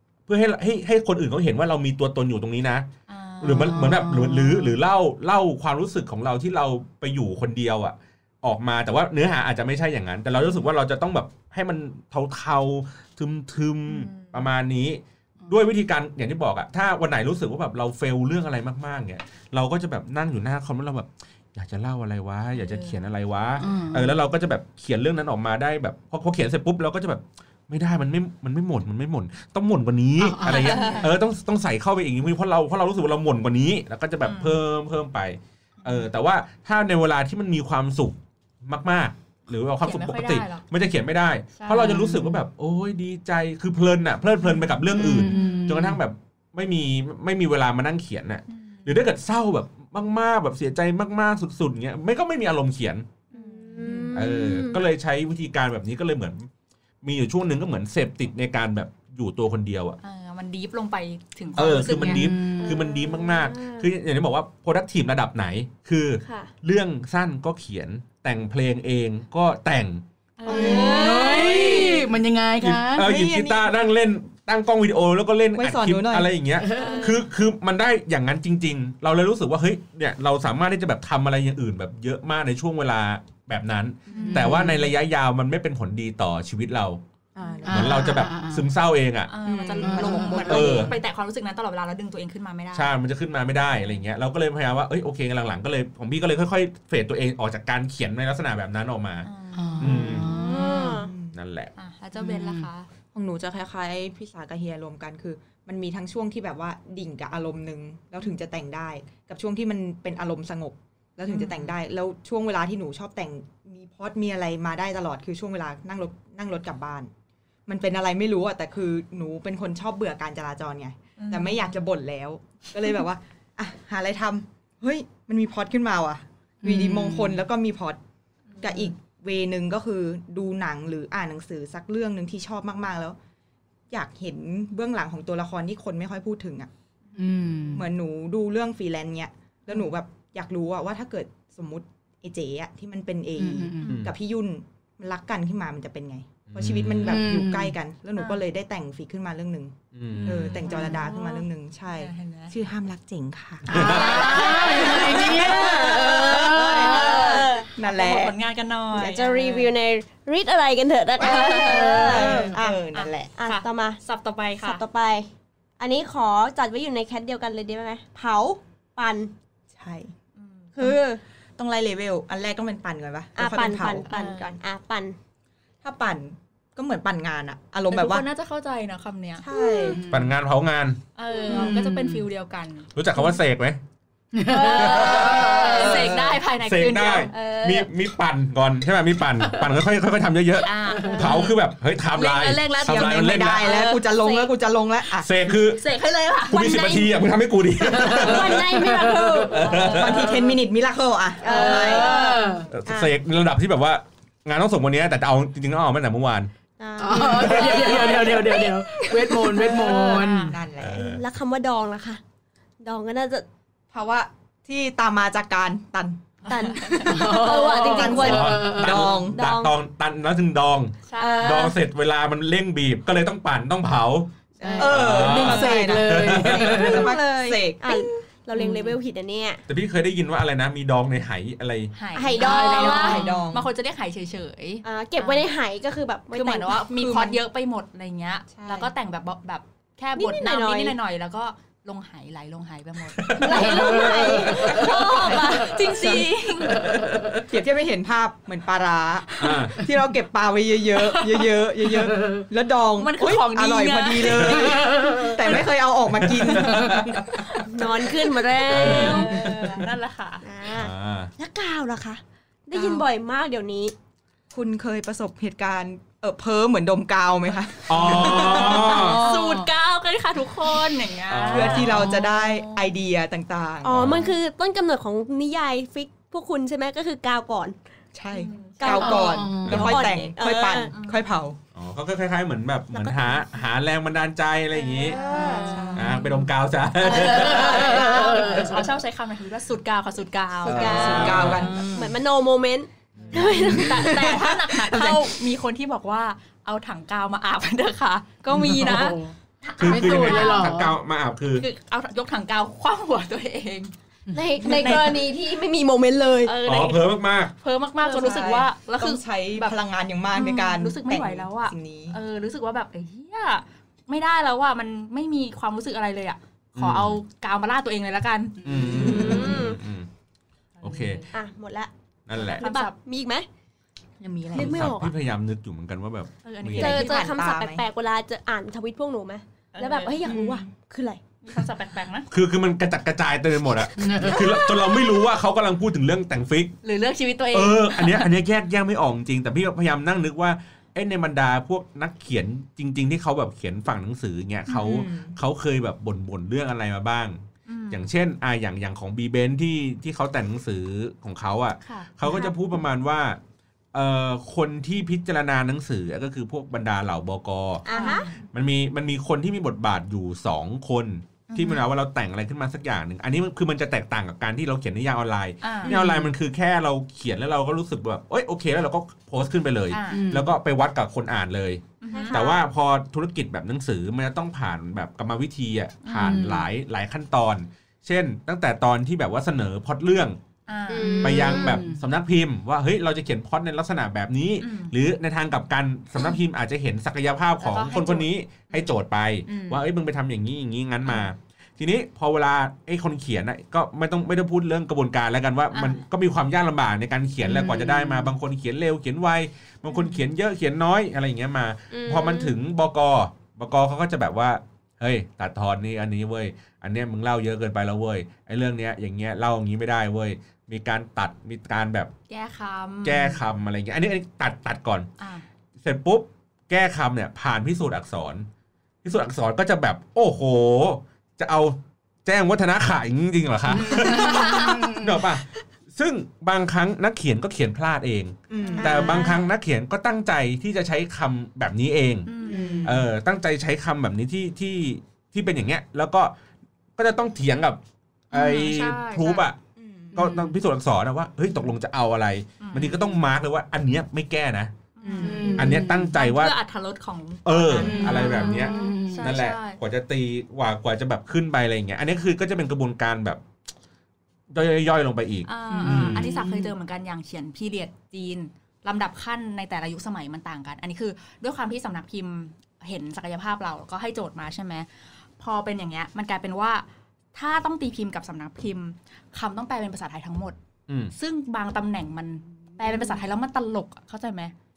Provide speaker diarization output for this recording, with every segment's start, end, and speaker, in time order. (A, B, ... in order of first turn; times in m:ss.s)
0:00.3-0:02.9 A
0:03.1-0:03.8 B
0:03.4-0:53.1 A
0:03.5-0:04.8 C
0:13.9-0:14.4 B
0:22.5-0:23.0 B
0:23.6-0:24.2 C
0:30.2-0:31.1 C
0:30.5-0:31.1 B
0:34.2-0:34.6 B
0:39.8-0:40.6 B
0:41.6-0:42.0 B
0:41.7-0:42.4 C
0:44.9-0:46.0 C
0:48.5-0:48.9 B
0:53.3-0:54.0 B
0:53.3-0:54.8 D
0:53.8-0:54.2 E
0:54.1-0:56.5 A
0:57.0-1:00.0 A
1:00.0-1:02.3 B
1:01.6-1:10.0 A
1:02.0-1:02.9 C
1:02.6-1:03.9 D
1:06.2-1:06.5 D
1:10.4-1:12.0 D
1:10.4-1:12.0 E
1:10.4-1:13.1 C
1:10.5-1:11.1 B
1:12.6-1:27.0 A
1:13.0-1:13.6 E
1:15.6-1:16.3 E
1:16.6-1:17.2 C
1:16.7-1:17.2 D
1:24.1-1:24.5 E
1:24.1-1:24.5 B
1:24.1-1:24.9 C
1:27.3-1:28.1 E
1:27.6-1:28.7 C
1:27.6-1:29.3 A
1:29.3-1:33.0 B
1:29.4-1:31.0 E
1:29.8-1:30.8 C
1:30.5-1:30.9 A
1:32.7-1:39.3 A
1:39.2-1:40.9 B
1:39.5-1:40.9 C
1:39.8-1:40.4 A
1:40.3-1:41.1 D
1:40.8-1:41.3 E
1:41.3-1:41.7 A
1:41.8-1:42.9 B
1:42.2-1:42.7 C
1:43.1-1:57.1 E
1:51.3-1:51.6 B
1:57.7-2:08.0 E
2:01.2-2:01.7 B
2:06.6-2:07.4 C
2:08.5-2:08.9 B
2:08.6-2:13.2 E
2:13.9-2:16.7 E
2:17.2-2:17.9 C
2:17.7-2:38.4 E
2:23.4-2:24.0 C
2:23.9-2:24.1 A
2:26.5-2:27.3 A
2:27.0-2:27.7 C
2:28.2-2:28.4 B
2:29.9-2:30.6 A
2:30.1-2:31.1 B
2:30.8-2:31.4 D
2:31.9-2:32.6 B
2:33.7-2:34.4 A
2:33.7-2:36.9 C
2:33.7-2:39.7 B
2:35.2-2:37.7 D
2:38.9-2:42.6 D
2:41.2-2:43.3 E
2:41.2-2:44.8 B
2:43.4-2:44.0 D
2:44.6-2:49.3 D
2:49.7-2:50.1 E
2:50.4-2:50.7 B
2:50.8-2:51.0 E
2:50.8-2:51.2 D
2:51.6-2:54.1 E
2:53.4-2:55.2 D
2:54.1-2:54.6 B
2:55.8-2:58.2 E
2:57.9-2:59.4 B
2:59.4-3:00.0 E
2:59.5-3:00.0 D
2:59.8-3:00.3 C
3:00.1-3:01.0 A
3:01.1-3:02.9 B
3:01.4-3:02.2 C
3:02.9-3:03.8 A
3:04.3-3:05.9 C
3:04.4-3:06.0 D
3:04.4-3:07.4 B
3:04.8-3:05.5 A
3:05.1-3:06.4 E
3:06.6-3:13.7 A
3:07.3-3:07.9 D
3:10.6-3:11.6 B
3:10.8-3:11.4 C
3:12.1-3:13.9 B
3:12.8-3:15.3 E
3:13.7-3:14.5 D
3:15.2-3:15.8 A
3:15.8-3:17.0 B
3:16.5-3:18.8 A
3:16.5-3:17.2 D
3:17.9-3:20.4 D
3:18.0-3:20.5 C
3:19.4-3:20.3 A
3:19.9-3:22.3 E
3:21.4-3:23.1 D
3:21.5-3:22.4 B
3:21.6-3:22.7 C
3:22.7-3:26.5 A
3:26.8-3:30.3 D
3:27.0-3:30.6 C
3:29.6-3:31.0 E
3:29.7-3:30.6 B
3:30.8-3:31.2 A
3:31.0-3:32.2 D
3:32.8-3:33.4 D
3:33.9-3:39.4 E
3:36.4-3:37.2 B
3:36.5-3:39.7 D
3:37.0-3:39.1 C
3:38.1-3:47.1 A
3:41.1-3:41.7 B
3:41.2-3:41.8 D
3:44.6-3:47.1 C
3:44.6-3:48.1 E
3:46.7-3:49.6 D
3:48.6-3:48.9 C
3:49.7-3:51.9 A
3:52.0-3:55.4 B
3:52.1-3:53.2 D
3:52.4-3:53.5 C
3:52.4-3:53.7 E
3:54.8-3:56.9 D
3:56.3-4:07.0 B
3:57.0-3:57.4 E
3:58.6-3:58.9 E
4:00.2-4:01.0 D
4:03.1-4:04.8 A
4:03.3-4:05.8 D
4:04.0-4:04.3 C
4:05.3-4:06.0 E
4:06.7-4:07.1 C
4:07.0-4:07.4 A
4:07.5-4:17.9 E
4:09.4-4:09.8 A
4:11.1-4:12.4 C
4:13.0-4:15.6 B
4:14.4-4:14.7 A
4:14.7-4:15.6 C
4:16.1-4:17.4 A
4:17.5-4:19.9 D
4:18.6-4:19.7 A
4:18.8-4:20.5 B
4:18.9-4:19.2 E
4:20.4-4:23.9 D
4:20.7-4:21.3 A
4:24.5-4:29.4 E
4:27.9-4:29.2 A
4:28.2-4:32.8 B
4:28.3-4:29.7 C
4:31.3-4:32.0 A
4:31.4-4:34.2 E
4:31.9-4:32.3 C
4:33.8-4:37.8 D
4:33.9-4:34.3 A
4:38.1-4:41.6 E
4:38.3-4:39.4 B
4:38.8-4:40.9 D
4:39.0-4:40.0 C
4:40.9-4:41.2 B
4:41.7-4:45.2 A
4:42.9-4:43.4 D
4:44.9-4:46.3 B
4:45.0-4:46.0 D
4:45.2-4:46.2 E
4:45.3-4:45.7 C
4:45.9-4:48.0 A
4:47.0-4:51.7 B
4:47.2-4:48.9 C
4:47.2-4:48.6 D
4:47.6-4:48.3 E
4:50.6-4:51.7 A
4:50.6-4:52.1 E
4:50.7-4:51.4 D
4:51.6-4:51.8 C
4:51.9-4:54.3 D
4:53.1-4:53.9 A
4:53.4-5:00.8 B
4:54.0-4:54.5 C
4:58.5-5:00.9 C
4:58.7-4:58.9 D
4:59.8-5:01.6 A
5:01.6-5:03.9 B
5:04.3-5:06.6 D
5:04.6-5:05.0 E
5:04.6-5:05.1 B
5:06.4-5:09.8 B
5:06.6-5:07.5 A
5:08.0-5:12.2 E
5:10.3-5:19.6 B
5:16.8-5:17.2 A
5:18.6-5:19.5 C
5:18.6-5:20.1 A
5:18.9-5:19.8 D
5:20.8-5:21.3 B
5:20.8-5:21.2 A
5:21.3-5:23.5 D
5:22.3-5:22.6 A
5:22.6-5:23.0 B
5:24.2-5:24.9 E
5:24.5-5:25.1 D
5:24.5-5:27.0 A
5:26.4-5:27.4 B
5:26.8-5:31.2 D
5:26.8-5:27.8 E
5:29.7-5:30.1 B
5:30.3-5:30.6 E
5:31.4-5:32.3 B
5:32.3-5:36.7 A
5:34.0-5:34.6 C
5:36.8-5:38.3 B
5:37.5-5:53.4 A
5:44.7-5:45.0 B
5:44.8-5:45.4 E
5:47.7-5:48.1 B
5:51.8-5:52.1 B
5:53.9-5:57.9 A
5:57.8-5:58.3 D
5:57.9-5:58.3 B
5:58.5-6:20.4 A
6:01.5-6:01.9 B
6:05.6-6:06.0 B
6:05.9-6:06.3 C
6:09.9-6:10.2 B
6:10.1-6:10.5 C
6:12.0-6:12.5 B
6:12.1-6:12.6 D
6:16.0-6:16.5 B
6:16.2-6:16.7 C
6:20.7-6:21.2 B
6:20.9-6:21.8 D
6:21.0-6:22.0 C
6:21.2-6:52.1 A
6:24.6-6:24.9 B
6:27.6-6:28.9 B
6:29.5-6:29.8 B
6:35.7-6:36.0 B
6:37.4-6:38.3 C
6:41.9-6:42.6 D
6:52.3-6:53.4 B
6:53.0-6:55.1 A
6:55.2-6:55.4 B
6:55.8-6:58.5 A
6:59.0-7:12.3 A
7:03.7-7:05.2 C
7:04.0-7:04.8 B
7:08.5-7:09.2 E
7:08.7-7:09.4 B
7:08.8-7:09.4 D
7:12.3-7:12.8 B
7:12.4-7:13.0 E
7:12.4-7:13.1 C
7:12.8-7:16.3 A
7:17.0-7:19.6 A
7:18.3-7:19.4 B
7:19.8-7:20.3 E
7:20.1-7:20.6 C
7:20.1-7:24.7 A
7:22.6-7:23.0 B
7:25.0-7:29.8 B
7:25.0-7:25.6 E
7:25.2-7:26.1 C
7:25.6-7:26.6 A
7:27.4-7:33.4 A
7:27.8-7:29.3 C
7:34.5-7:36.3 A
7:35.4-7:50.6 B
7:35.7-7:36.7 C
7:50.9-7:51.1 A
7:51.1-7:54.5 B